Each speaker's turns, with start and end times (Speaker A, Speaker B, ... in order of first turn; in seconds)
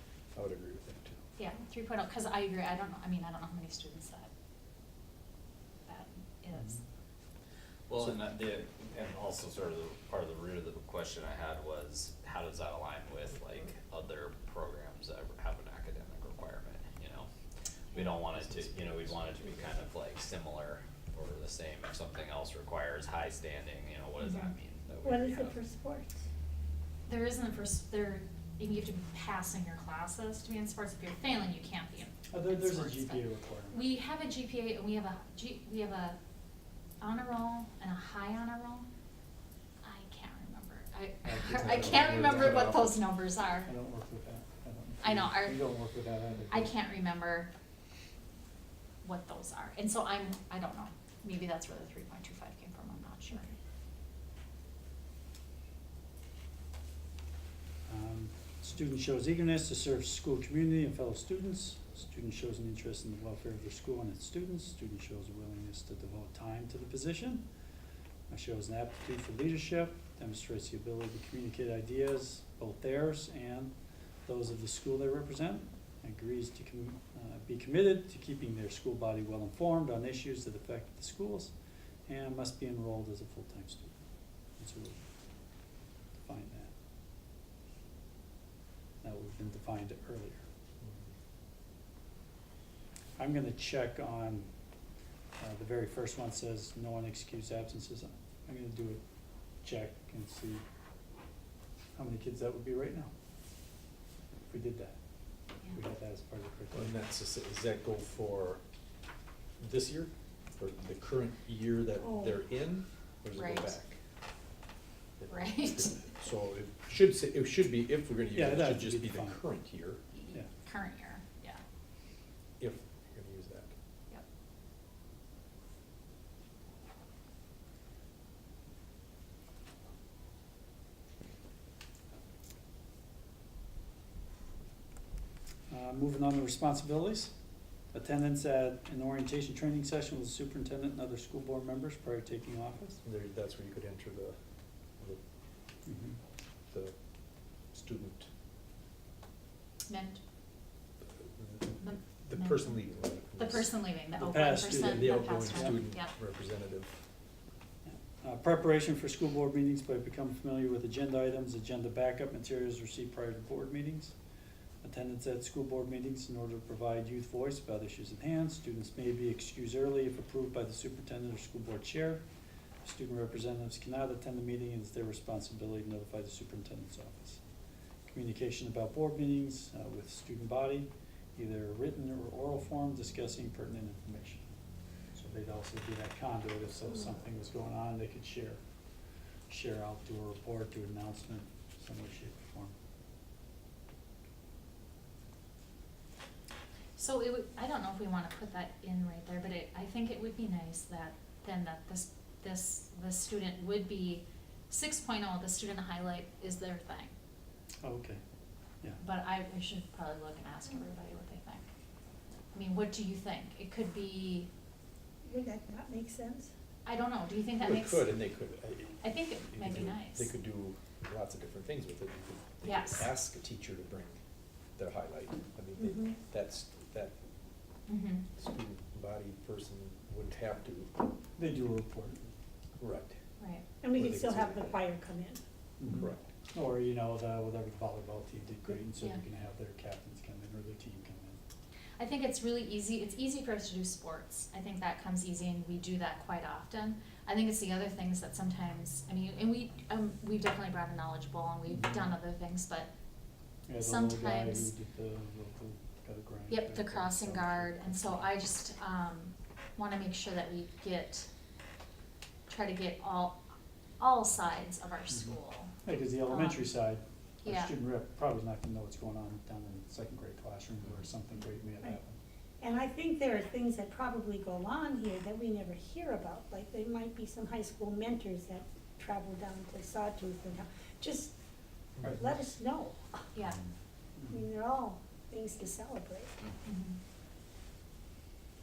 Speaker A: 0.3-1.2, 18.6-19.5, 41.9-42.5, 90.8-91.1, 106.7-108.6, 109.6-114.0, 115.2-120.0, 122.6-123.7, 143.0-144.4, 147.7-148.3, 151.2-153.8, 154.8-156.9, 217.6-224.2, 224.8-227.1, 228.3-230.9, 232.8-233.2, 233.8-234.8, 235.8-236.3
Speaker B: 1.4-4.3, 5.8-6.8, 27.1-36.2, 37.0-38.9, 39.8-43.7, 45.0-45.6, 46.5-47.5, 49.0-53.5, 113.3-113.8, 115.3-116.1, 120.1-121.6, 149.9-150.2, 151.8-152.8, 153.4-156.1, 196.9-207.1, 209.0-211.6, 212.5-214.5, 216.8-218.0, 219.0-220.3, 222.6-223.1, 227.9-228.2, 233.4-233.6, 242.0-252.9, 253.8-254.7, 256.5-261.3, 262.5-263.4, 264.0-265.7, 266.2-266.7, 267.4-267.7, 283.3-283.6, 286.6-287.0
Speaker C: 6.5-6.8, 32.3-33.9, 41.2-42.8, 43.6-46.8, 57.9-67.4, 68.3-73.7, 74.2-81.5, 82.0-83.9, 84.6-85.0, 86.2-86.7, 89.0-90.4, 93.2-94.5, 95.4-99.0, 99.6-100.6, 101.9-103.1, 104.5-105.0, 105.7-106.9, 118.3-119.4, 135.7-137.3, 137.9-143.0, 145.8-146.2, 154.2-155.8, 157.8-164.1, 164.8-172.2, 172.8-177.4, 178.1-184.5, 185.1-188.6, 189.5-192.7, 207.8-208.2, 231.4-232.3, 235.8-241.4, 251.7-252.2, 253.7-258.3, 265.8-272.1, 282.0-282.4, 284.2-284.4
Speaker D: 7.9-17.3, 17.9-25.5
Speaker E: 25.0-26.1, 112.0-112.4, 215.2-216.5, 225.8-226.2, 233.8-235.4, 272.6-281.3, 282.0-283.2, 284.3-286.3